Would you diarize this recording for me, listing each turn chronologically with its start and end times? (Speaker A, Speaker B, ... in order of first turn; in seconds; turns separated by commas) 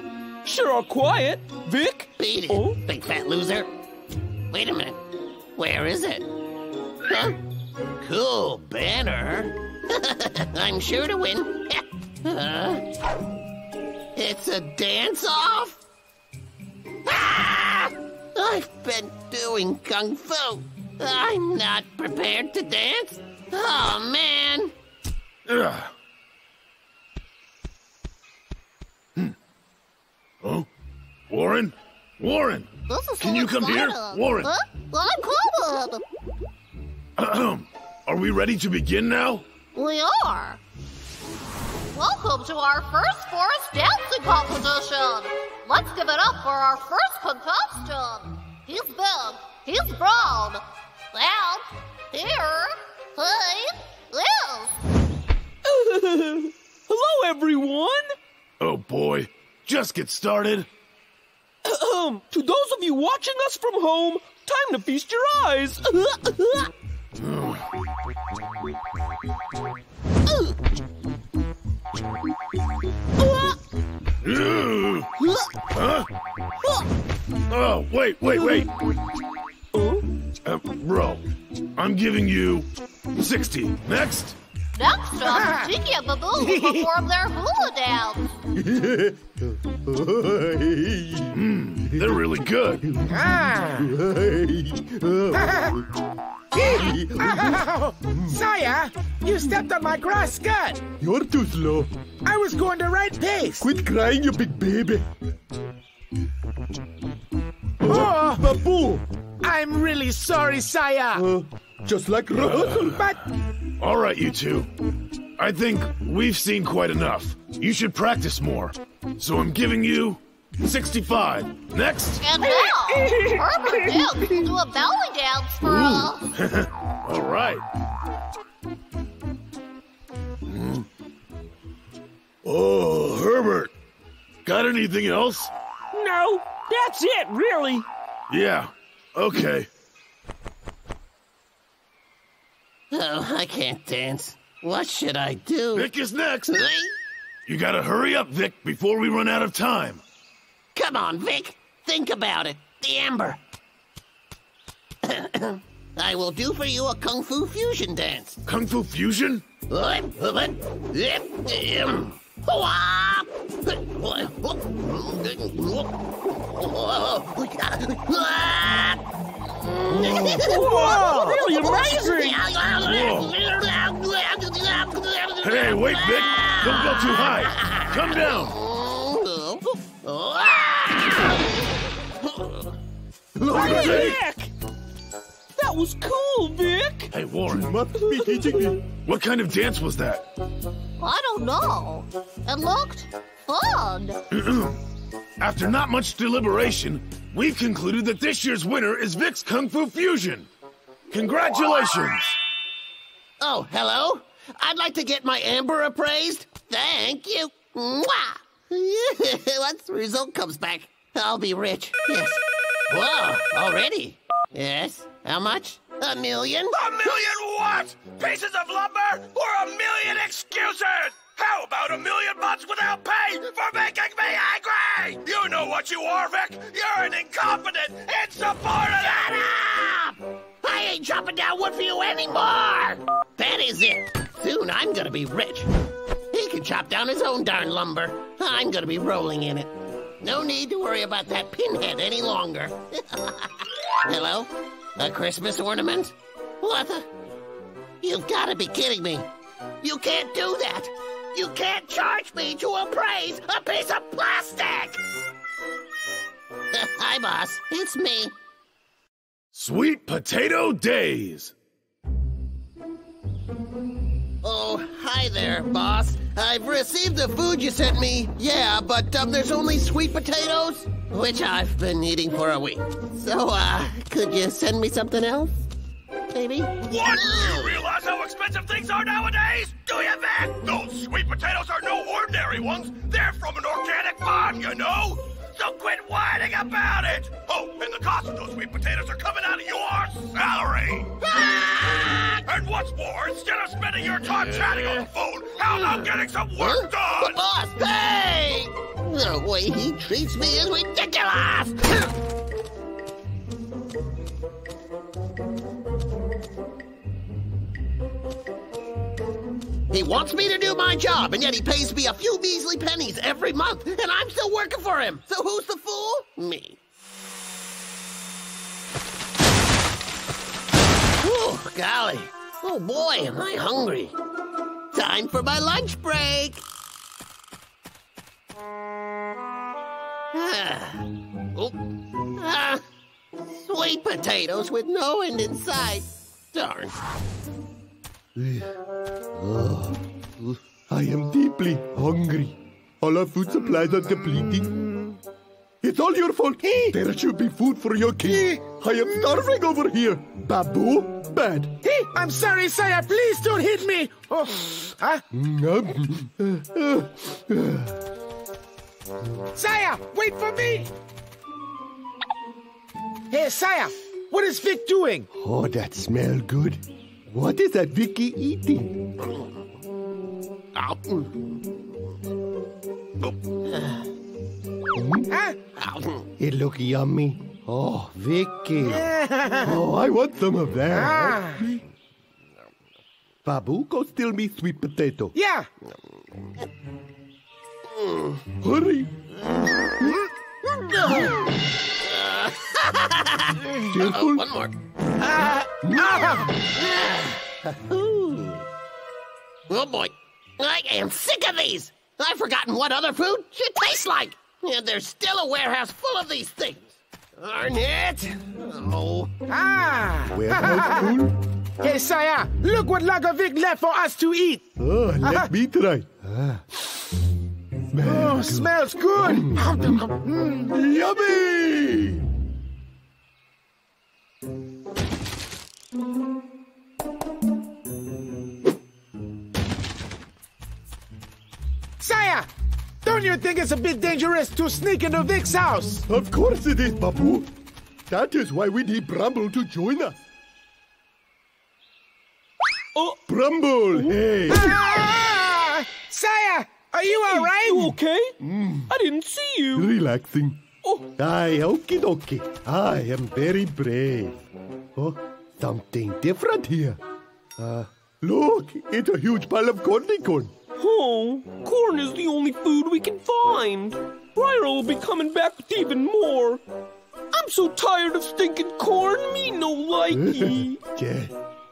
Speaker A: 0.4-2.8, Speaker B: 2.2-3.7, Speaker B: 4.5-5.0, Speaker B: 5.6-6.3, Speaker B: 7.0-7.4, Speaker B: 8.0-12.8, Speaker B: 14.2-15.8, Speaker B: 17.1-24.7, Speaker C: 25.5-25.9, Speaker C: 30.4-30.7, Speaker C: 31.3-34.5, Speaker D: 32.9-36.0, Speaker C: 37.2-39.5, Speaker D: 39.8-40.6, Speaker D: 41.9-54.7, Speaker A: 55.6-58.1, Speaker C: 58.6-60.7, Speaker A: 61.6-66.7, Speaker C: 67.2-67.7, Speaker A: 73.2-73.6, Speaker C: 74.2-75.1, Speaker C: 75.7-76.1, Speaker C: 77.5-78.7, Speaker A: 79.7-80.0, Speaker C: 80.5-81.2, Speaker C: 81.8-84.4, Speaker D: 84.8-88.3, Speaker E: 85.2-85.8, Speaker E: 86.3-86.9, Speaker F: 88.5-92.3, Speaker C: 91.3-92.8, Speaker F: 92.8-95.8, Speaker E: 93.1-93.9, Speaker E: 95.3-95.8, Speaker E: 96.5-100.8, Speaker F: 96.6-98.4, Speaker F: 101.0-101.9, Speaker E: 102.2-103.7, Speaker F: 103.6-105.1, Speaker F: 107.8-109.0, Speaker E: 107.8-111.2, Speaker F: 111.1-113.0, Speaker C: 112.3-113.1, Speaker C: 113.8-114.7, Speaker C: 115.4-122.2, Speaker D: 122.2-126.3, Speaker A: 122.4-124.4, Speaker C: 125.6-127.6, Speaker C: 130.5-130.9, Speaker C: 132.4-133.7, Speaker C: 134.4-135.5, Speaker A: 135.9-137.9, Speaker C: 138.3-139.7, Speaker B: 142.9-145.9, Speaker C: 145.7-146.6, Speaker B: 146.5-146.9, Speaker C: 147.5-150.0, Speaker B: 150.8-153.4, Speaker B: 155.0-158.4, Speaker C: 158.5-159.4, Speaker B: 159.7-182.7, Speaker A: 170.0-172.2, Speaker D: 172.0-172.3, Speaker C: 172.8-173.3, Speaker C: 175.4-178.5, Speaker F: 183.4-184.2, Speaker A: 183.5-184.5, Speaker C: 183.6-184.2, Speaker A: 185.6-187.1, Speaker C: 187.1-187.7, Speaker F: 187.5-188.8, Speaker A: 188.0-188.8, Speaker C: 189.0-190.2, Speaker D: 191.0-194.2, Speaker C: 194.3-194.8, Speaker C: 195.4-200.5, Speaker C: 201.1-202.4, Speaker B: 201.4-201.9, Speaker B: 203.4-216.9, Speaker G: 216.8-228.9, Speaker C: 217.4-217.8, Speaker C: 220.4-220.8, Speaker C: 225.2-225.9, Speaker C: 226.7-227.1, Speaker B: 228.8-235.7, Speaker B: 236.3-247.1, Speaker B: 248.0-249.3, Speaker B: 249.8-255.0, Speaker B: 256.7-258.3, Speaker C: 259.5-261.5, Speaker B: 264.4-275.7, Speaker B: 276.3-277.8, Speaker C: 276.9-285.0, Speaker G: 277.1-291.1, Speaker C: 285.6-290.9, Speaker B: 291.2-292.4, Speaker G: 292.5-297.3, Speaker C: 292.5-295.2, Speaker B: 294.3-295.1, Speaker B: 295.7-302.1, Speaker B: 309.9-316.8, Speaker B: 321.2-324.1, Speaker B: 324.9-326.6, Speaker B: 330.3-331.8, Speaker B: 332.3-332.8, Speaker B: 333.6-337.0, Speaker F: 338.4-338.7, Speaker F: 339.4-339.9, Speaker F: 340.9-344.8, Speaker F: 345.8-351.8, Speaker E: 346.6-347.0, Speaker E: 348.2-348.6, Speaker E: 351.8-355.2, Speaker F: 355.3-358.0, Speaker E: 359.6-360.9, Speaker E: 363.3-365.3, Speaker F: 365.3-369.1, Speaker B: 370.7-371.8, Speaker B: 373.2-374.1, Speaker F: 374.9-375.3, Speaker E: 375.3-375.6, Speaker B: 375.8-376.3, Speaker F: 376.4-379.1, Speaker E: 378.8-379.8, Speaker F: 379.6-381.8, Speaker E: 380.9-381.6, Speaker F: 383.4-385.3, Speaker E: 385.3-385.7, Speaker B: 385.9-386.7, Speaker B: 387.9-388.4, Speaker F: 388.6-389.1, Speaker B: 389.5-389.9, Speaker B: 390.6-394.8, Speaker F: 393.9-394.5, Speaker E: 395.2-396.6, Speaker F: 395.9-396.5, Speaker B: 396.6-398.6, Speaker B: 399.7-409.3, Speaker E: 409.5-411.2, Speaker F: 410.3-411.4, Speaker E: 411.8-414.7, Speaker F: 414.8-417.0, Speaker E: 415.2-415.5, Speaker F: 417.9-420.1, Speaker E: 418.0-420.8, Speaker F: 420.6-422.3, Speaker E: 432.0-432.5, Speaker E: 433.0-436.1, Speaker F: 436.1-437.5, Speaker F: 438.1-440.2, Speaker A: 442.9-443.2, Speaker F: 443.3-444.8, Speaker A: 443.9-444.2, Speaker E: 444.5-448.0, Speaker A: 447.0-448.4, Speaker F: 448.4-448.9, Speaker A: 448.9-449.9, Speaker F: 449.8-450.6, Speaker F: 451.2-457.0, Speaker F: 457.6-460.5, Speaker A: 460.8-466.6, Speaker A: 467.3-470.8, Speaker F: 470.1-471.4